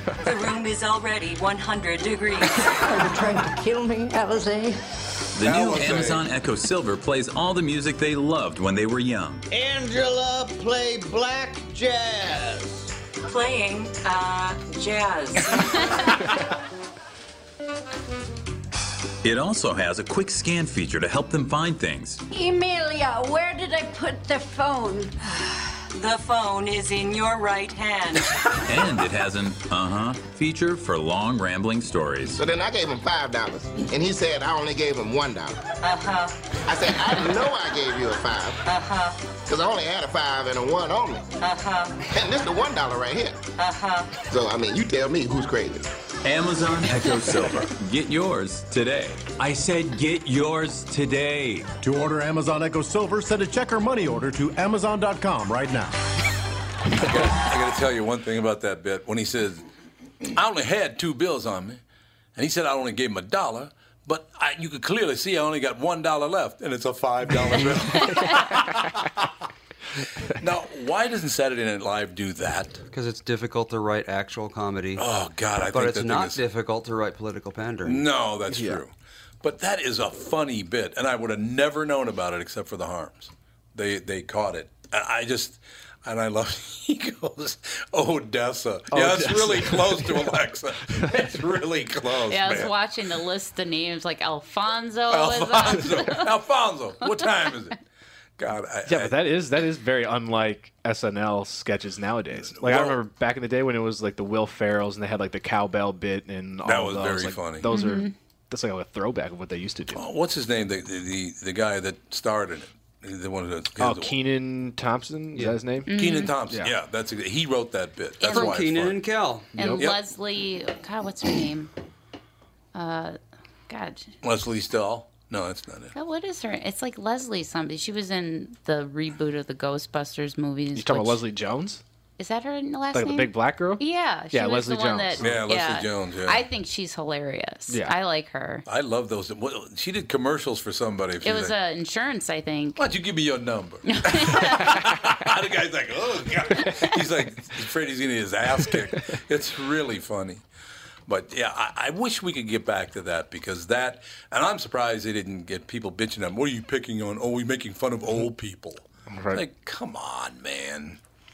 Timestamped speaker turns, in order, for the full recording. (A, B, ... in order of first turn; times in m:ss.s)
0:00.2-0:02.7 A
0:03.1-0:04.8 B
0:05.4-0:09.4 C
0:05.4-0:06.3 D
0:09.5-0:12.9 E
0:13.3-0:16.2 A
0:19.2-0:22.2 C
0:22.3-0:25.2 B
0:25.9-0:28.4 A
0:28.6-0:32.4 C
0:32.4-0:35.6 F
0:35.8-0:36.3 A
0:36.7-0:38.6 F
0:38.7-0:39.2 A
0:39.4-0:41.2 F
0:41.4-0:42.0 A
0:42.1-0:43.4 F
0:43.6-0:44.1 A
0:44.2-0:45.9 F
0:46.2-0:51.7 C
0:51.8-0:55.9 G
0:57.0-0:59.7 D
1:00.3-1:01.8 D
1:02.4-1:09.3 D
1:10.3-1:12.8 D
1:12.9-1:15.0 H
1:15.0-1:16.4 D
1:15.6-1:18.0 H
1:17.8-1:18.9 D
1:18.5-1:18.8 I
1:19.4-1:32.7 D
1:28.9-1:30.3 I
1:32.3-1:36.3 J
1:35.1-1:37.8 D
1:38.4-1:39.3 D
1:38.9-1:50.0 I
1:42.5-1:43.0 D
1:46.6-1:47.7 D
1:47.7-1:48.1 J
1:49.9-1:54.2 D
1:53.8-1:55.9 I
1:55.9-1:56.3 J
1:56.0-1:59.0 D
1:58.2-1:58.6 J
1:58.3-1:59.5 H
1:59.5-1:59.8 I
1:59.6-2:01.7 J
2:02.7-2:03.2 J
2:03.7-2:04.1 J
2:04.2-2:05.9 D
2:05.9-2:11.2 J
2:10.8-2:11.8 I
2:12.2-2:18.6 J
2:12.9-2:15.3 I
2:15.2-2:16.4 D
2:18.7-2:21.6 D
2:21.2-2:22.8 J
2:22.8-2:30.4 D
2:23.9-2:24.7 J
2:31.1-2:41.0 D
2:39.1-2:39.4 I